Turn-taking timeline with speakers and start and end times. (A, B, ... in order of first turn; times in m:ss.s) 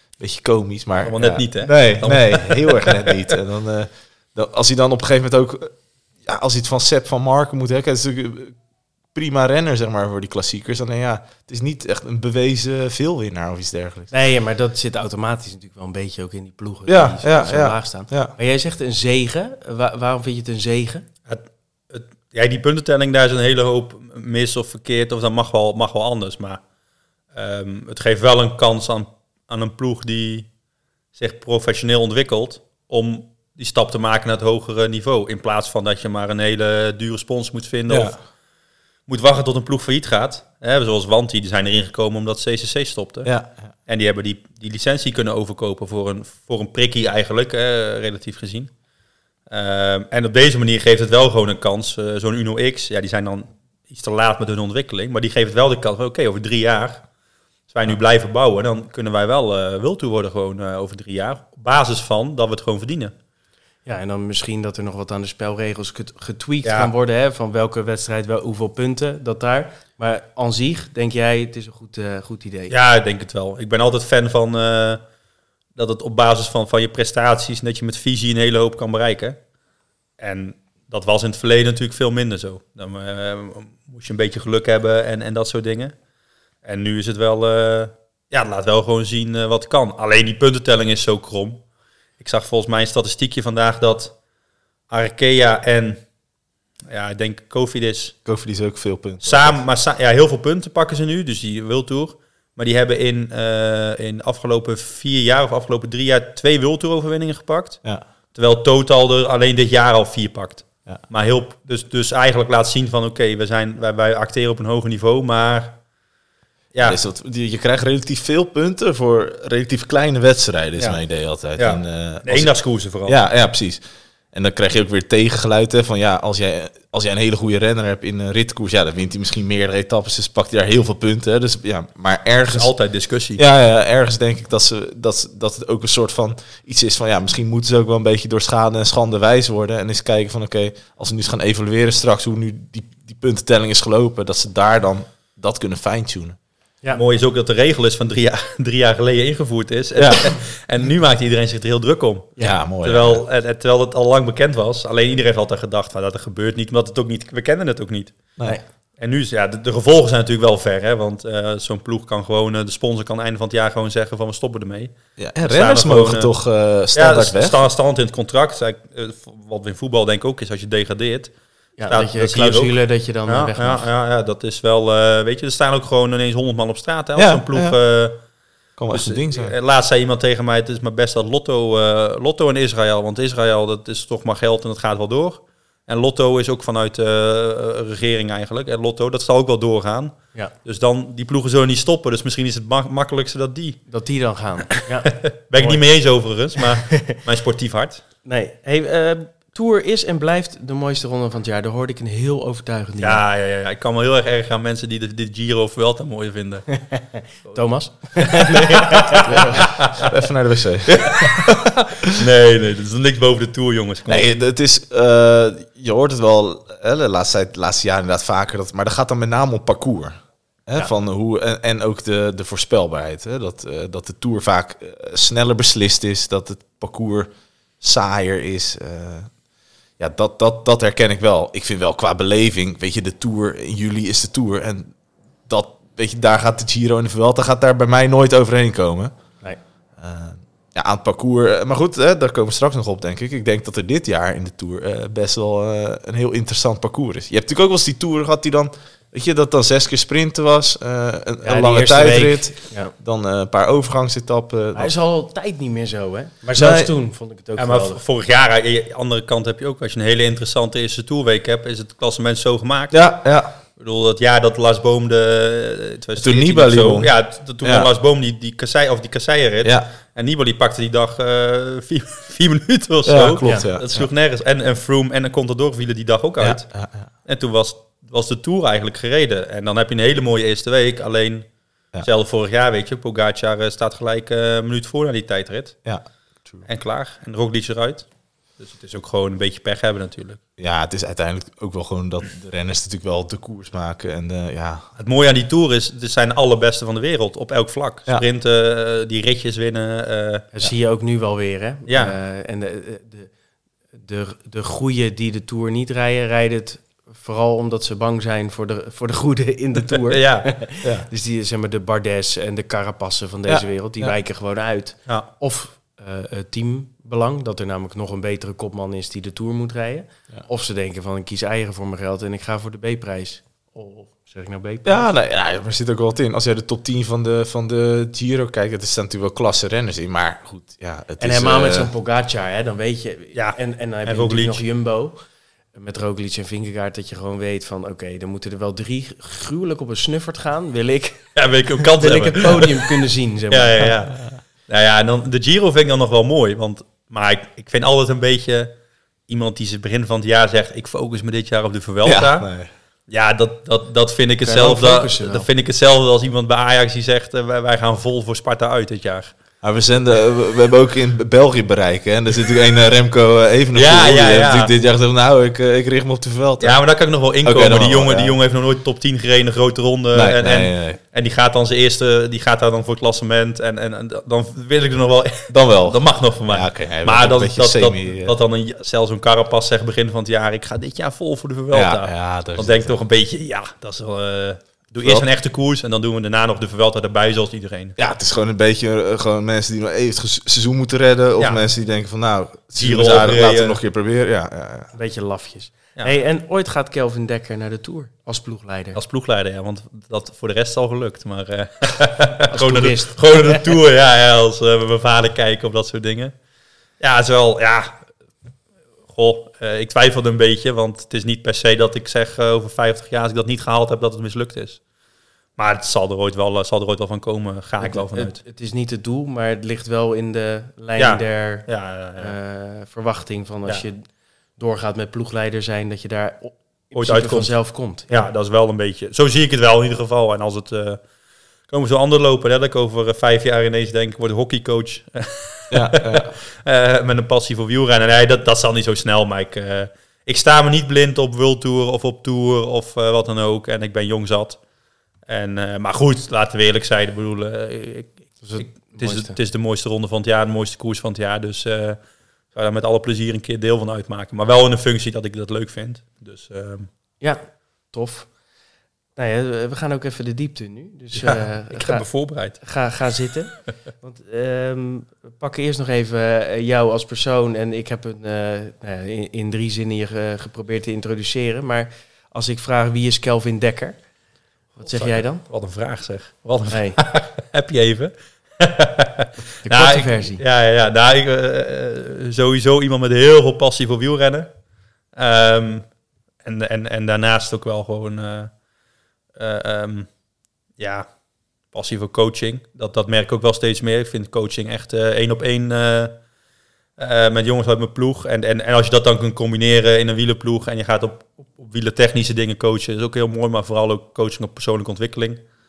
0:00.2-0:08.6 A
0:01.0-0:03.2 B
0:09.1-0:14.1 A
0:14.1-0:21.0 C
0:16.9-0:18.3 A
0:21.3-0:26.6 B
0:27.3-0:30.5 B
0:31.1-0:38.2 B
0:37.9-0:38.2 A
0:39.1-0:43.3 B
0:43.2-0:43.7 A
0:43.9-0:48.7 B
0:49.5-0:57.0 B
0:57.7-1:03.1 B
1:03.8-1:12.7 C
1:06.6-1:06.9 B
1:12.7-1:15.0 B
1:15.8-1:19.4 B
1:20.2-1:25.9 B
1:26.6-1:31.6 B
1:32.2-1:34.1 B
1:34.9-1:36.0 B
1:36.9-1:38.2 B
1:38.2-1:39.6 A
1:39.2-1:47.8 B
1:48.3-1:55.8 B
1:56.7-1:57.0 B
1:56.8-2:02.5 A
2:01.6-2:03.2 B
2:03.1-2:03.8 A
2:04.3-2:12.7 A
2:12.5-2:13.4 B
2:13.4-2:26.4 A
2:26.9-2:38.2 B
2:30.0-2:30.3 A
2:32.4-2:33.2 A
2:39.0-2:46.3 B
2:45.2-2:47.7 A
2:46.9-2:51.3 B
2:51.8-2:53.8 C
2:51.9-2:52.7 B
2:53.3-2:58.2 B
2:57.2-2:57.8 A
2:58.8-2:59.5 A
2:58.9-3:13.8 B
3:13.9-3:15.8 C
3:14.8-3:18.0 B
3:16.8-3:17.2 C
3:18.2-3:23.2 C
3:23.0-3:26.8 B
3:26.7-3:29.7 C
3:28.2-3:30.1 B
3:29.2-3:32.2 A
3:31.0-3:34.3 B
3:34.1-3:47.3 A
3:47.8-3:49.3 A
3:50.0-3:54.9 A
3:55.5-3:59.1 A
4:00.0-4:14.9 A
4:11.4-4:12.9 C
4:14.7-4:18.0 C
4:16.5-4:16.9 A
4:17.6-4:23.0 B
4:22.9-4:23.5 A
4:23.8-4:36.6 B
4:26.2-4:27.9 A
4:29.6-4:29.9 A
4:33.0-4:34.1 A
4:33.4-4:33.7 C
4:36.4-4:37.1 A
4:37.2-4:41.5 B
4:42.0-4:45.8 B
4:45.8-4:46.6 A
4:46.7-4:48.1 B
4:48.6-4:50.4 B
4:50.6-4:54.8 A
4:55.0-5:00.4 B
5:00.5-5:03.3 C
5:01.9-5:02.1 B
5:03.9-5:25.0 C
5:09.9-5:10.6 B
5:13.5-5:14.1 A
5:24.8-5:31.9 A
5:31.2-5:35.2 C
5:33.3-5:34.6 B
5:35.7-5:43.9 C
5:41.3-5:42.9 B
5:43.5-5:48.7 B
5:49.3-5:52.5 B
5:52.0-5:52.7 A
5:53.1-5:59.3 B
5:54.4-5:55.4 C
5:59.6-6:06.8 A
6:03.7-6:04.7 B
6:06.6-6:27.9 B
6:07.4-6:08.4 A
6:10.1-6:11.0 A
6:15.5-6:18.3 A
6:21.7-6:23.0 A
6:25.0-6:25.3 A
6:28.0-6:34.9 A
6:31.4-6:31.6 B
6:32.8-6:33.8 B
6:34.9-6:39.0 C
6:38.9-6:46.3 B
6:42.5-6:43.7 C
6:47.0-6:48.0 B
6:49.1-6:54.8 B
6:55.6-6:58.4 B
6:57.8-7:01.7 C
7:01.0-7:02.3 B
7:02.2-7:04.0 C
7:04.6-7:08.1 C
7:07.0-7:07.5 B
7:08.1-7:11.0 B
7:11.7-7:24.6 B
7:15.7-7:16.3 A
7:25.3-7:32.0 B
7:28.4-7:29.4 C
7:32.5-7:36.9 B
7:37.2-7:38.3 C
7:39.2-7:42.0 C
7:41.1-7:42.6 B
7:42.6-7:54.0 C
7:54.8-7:55.4 C
7:54.8-8:04.5 B
7:56.7-7:57.0 C
7:59.6-8:00.4 C
8:05.2-8:05.8 B
8:06.4-8:08.5 B
8:09.4-8:10.1 B
8:10.8-8:11.1 B
8:11.7-8:16.2 B
8:17.0-8:25.4 B